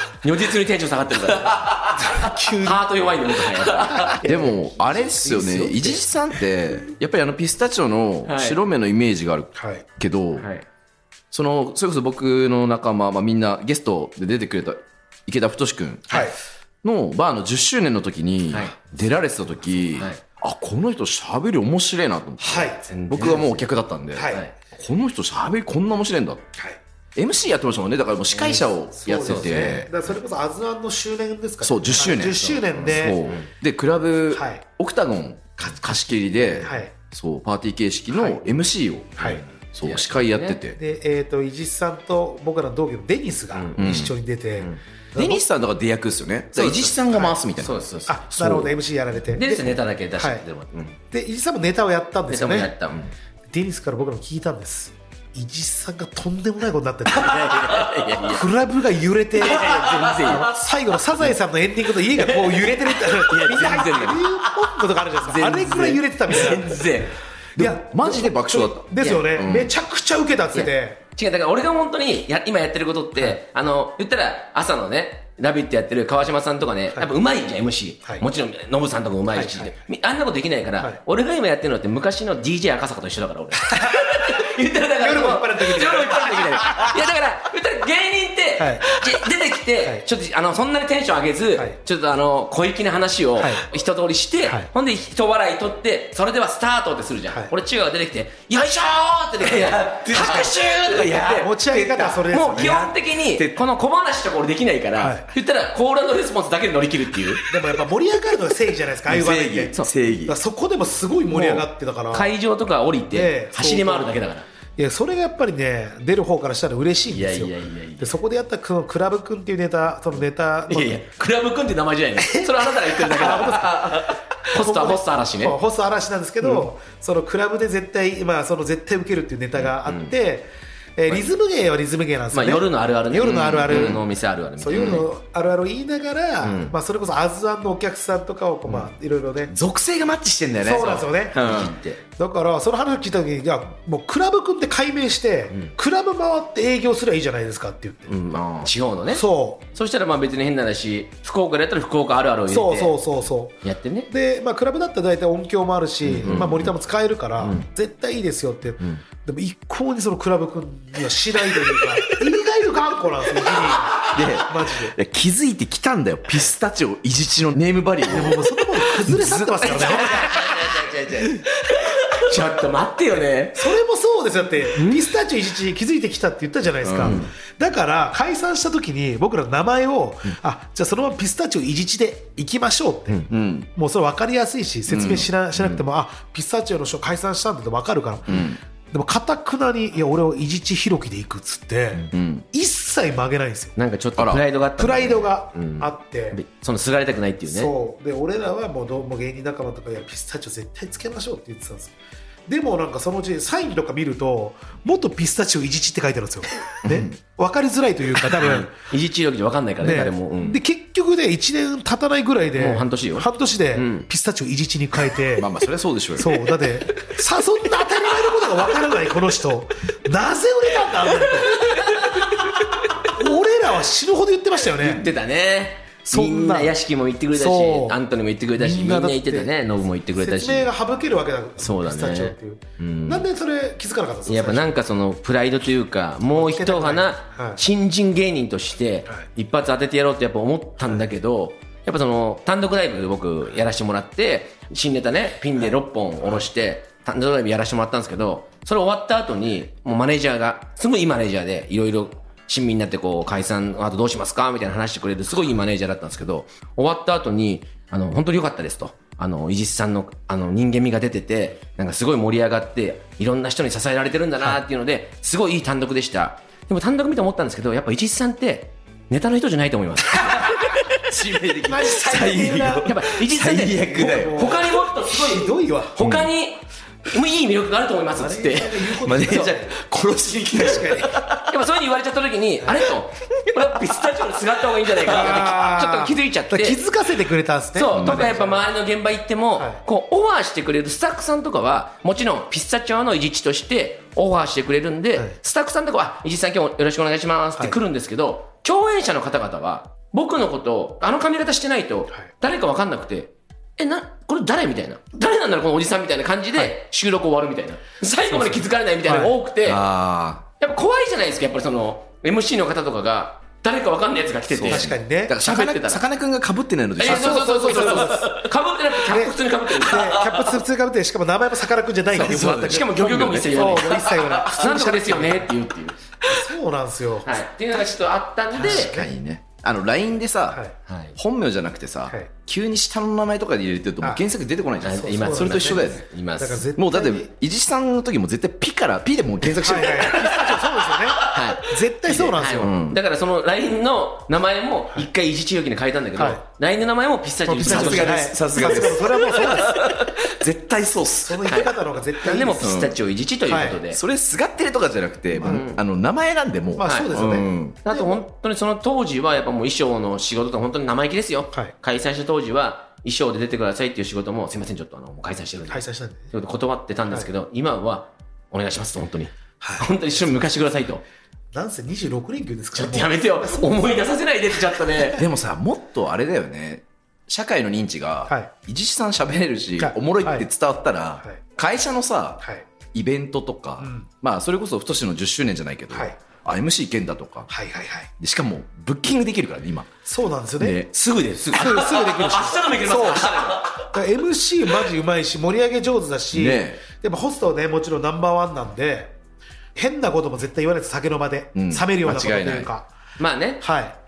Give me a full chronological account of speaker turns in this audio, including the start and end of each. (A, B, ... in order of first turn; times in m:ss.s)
0:00.2-0:04.2 A
0:02.0-0:06.0 B
0:04.2-0:10.5 C
0:08.3-0:08.6 A
0:09.6-0:09.8 B
0:10.4-0:10.6 A
0:11.3-0:16.2 C
0:16.1-0:16.3 B
0:16.8-0:26.5 C
0:22.4-0:22.8 B
0:22.9-0:23.7 A
0:24.2-0:24.5 B
0:27.2-0:29.9 C
0:28.3-0:28.6 A
0:28.9-0:33.2 B
0:29.2-0:29.8 A
0:31.6-0:40.8 C
0:33.1-0:33.5 A
0:34.3-0:34.6 B
0:36.6-0:36.9 B
0:38.1-0:38.4 B
0:39.2-0:40.6 A
0:40.8-0:45.4 B
0:43.5-0:43.8 A
0:43.8-0:44.2 C
0:45.2-0:47.8 C
0:46.6-0:47.4 B
0:47.6-0:48.6 A
0:48.1-0:50.4 B
0:48.4-0:48.7 C
0:49.3-0:51.0 A
0:51.1-0:52.7 B
0:52.3-0:53.1 A
0:53.5-1:11.0 B
0:57.1-0:58.4 A
0:59.4-1:00.6 A
1:02.2-1:04.4 A
1:05.2-1:07.1 A
1:07.6-1:09.7 C
1:10.5-1:41.5 A
1:19.3-1:19.7 B
1:23.7-1:24.4 B
1:25.0-1:27.0 B
1:28.6-1:29.2 B
1:33.4-1:33.6 B
1:39.4-1:42.2 C
1:40.2-1:40.5 B
1:41.2-1:43.0 B
1:42.3-1:47.5 A
1:43.3-1:43.6 C
1:45.0-1:45.3 B
1:47.5-1:49.8 B
1:49.1-1:50.4 C
1:50.3-1:52.4 B
1:52.1-1:54.5 A
1:53.1-1:54.2 B
1:54.8-2:01.0 B
1:57.1-1:58.1 A
2:00.7-2:05.6 A
2:02.2-2:14.1 B
2:06.4-2:06.7 A
2:09.6-2:10.1 A
2:12.3-2:15.1 A
2:13.7-2:14.0 C
2:14.6-2:19.6 B
2:16.4-2:16.7 A
2:19.5-2:21.7 C
2:20.6-2:28.2 B
2:21.3-2:22.0 A
2:28.1-2:33.0 A
2:29.1-2:29.6 B
2:32.5-2:45.0 B
2:33.6-2:34.1 A
2:36.1-2:36.6 A
2:36.2-2:36.7 C
2:37.4-2:37.7 A
2:44.0-2:50.6 C
2:48.1-2:50.6 B
2:49.7-2:53.7 A
2:51.1-2:51.4 C
2:53.5-3:13.8 B
2:56.8-2:57.2 C
2:57.0-2:57.3 A
3:03.3-3:03.7 C
3:04.9-3:05.8 C
3:08.3-3:08.6 C
3:12.1-3:12.4 C
3:13.8-3:17.7 A
3:14.2-3:14.4 C
3:14.8-3:16.4 B
3:17.5-3:21.9 B
3:22.5-3:28.7 B
3:26.9-3:27.2 C
3:28.4-3:30.6 A
3:29.8-3:35.5 B
3:32.6-3:34.1 A
3:35.4-3:36.4 C
3:36.2-3:42.0 B
3:43.0-3:45.1 B
3:44.8-3:50.7 A
3:46.1-3:46.7 B
3:47.3-3:48.0 B
3:48.6-3:49.5 B
3:50.2-3:54.7 B
3:51.6-3:53.3 A
3:54.3-4:30.8 A
3:56.3-3:57.6 B
4:30.5-4:34.6 C
4:31.7-4:33.0 B
4:32.8-4:39.4 A
4:34.0-4:36.0 B
4:36.0-4:36.3 C
4:38.2-4:39.8 B
4:39.0-4:41.5 C
4:40.6-4:41.2 B
4:41.5-4:46.8 A
4:42.6-4:42.9 B
4:45.1-4:48.7 B
4:47.8-5:09.8 A
4:47.9-4:48.4 C
4:49.6-4:49.8 B
5:09.0-5:09.3 B
5:09.6-5:10.5 C
5:10.6-5:16.0 A
5:14.5-5:18.3 C
5:14.6-5:15.4 B
5:17.0-5:20.2 A
5:17.0-5:18.4 B
5:19.1-5:25.5 B
5:22.1-5:24.8 C
5:22.3-5:26.0 A
5:26.3-5:27.4 B
5:27.2-5:28.9 A
5:28.6-5:29.1 B
5:28.6-5:30.6 C
5:30.9-5:31.2 A
5:31.2-5:36.0 C
5:34.8-5:36.6 A
5:35.1-5:37.3 B
5:36.8-5:41.0 C
5:39.4-5:42.7 B
5:41.2-5:48.9 A
5:42.6-5:43.0 C
5:47.5-5:49.9 B
5:47.6-5:51.6 C
5:51.2-5:52.7 B
5:52.2-5:54.0 A
5:52.6-5:53.0 C
5:53.5-5:53.8 B
5:53.9-5:57.8 C
5:55.4-5:55.6 B
5:55.4-5:55.8 A
5:56.8-5:58.2 B
5:57.8-6:11.0 A
6:05.7-6:06.3 B
6:09.6-6:09.9 B
6:11.5-6:14.0 B
6:12.8-6:15.2 A
6:15.2-6:27.5 C
6:19.8-6:20.5 B
6:23.8-6:24.1 B
6:25.9-6:26.2 B
6:27.5-6:28.1 B
6:28.2-6:29.9 C
6:30.1-6:30.8 B
6:30.7-6:33.9 A
6:31.5-6:39.2 B
6:36.3-6:36.8 C
6:39.8-6:42.9 B
6:41.6-6:42.7 C
6:43.2-6:43.6 A
6:43.6-6:44.0 B